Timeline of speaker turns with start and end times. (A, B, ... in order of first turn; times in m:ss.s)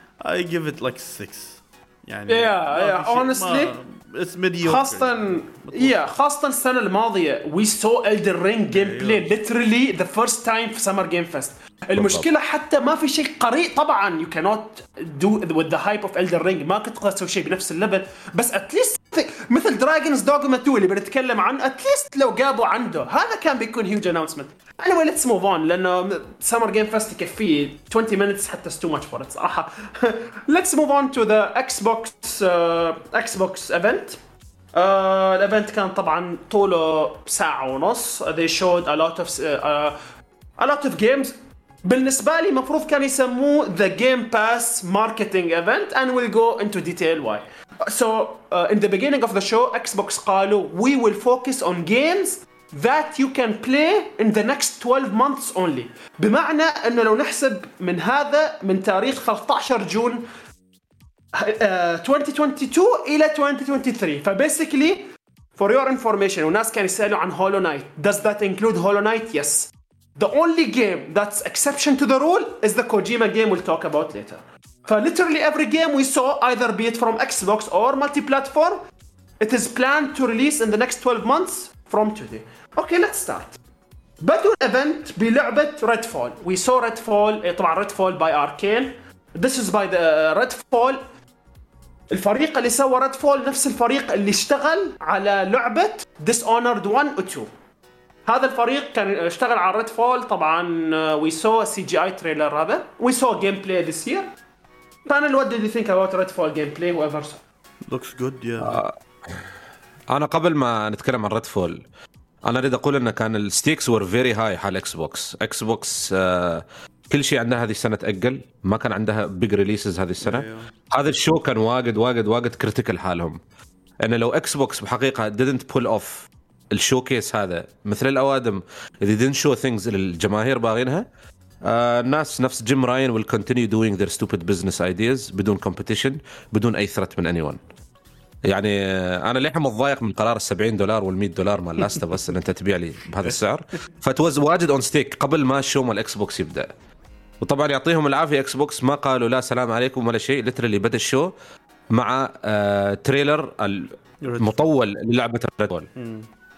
0:00.2-0:06.1 A
0:02.3-0:03.7 B
0:04.6-0:34.2 B
0:08.7-0:09.2 A
0:11.9-0:12.2 C
0:34.7-0:40.0 B
0:40.6-1:00.2 B
1:01.4-1:18.8 B
1:19.4-1:23.6 B
1:24.2-1:31.0 B
1:32.1-1:37.5 B
1:38.2-1:44.3 B
1:45.1-1:47.4 B
1:47.9-1:48.8 A
1:48.6-1:48.9 C
1:50.1-1:51.8 C
1:52.4-2:03.4 C
2:00.2-2:00.7 A
2:04.0-2:11.0 C
2:11.6-2:17.6 C
2:18.4-2:26.7 C
2:27.4-2:31.3 C
2:31.9-2:35.9 C
2:34.2-2:34.7 A
2:36.0-2:36.3 A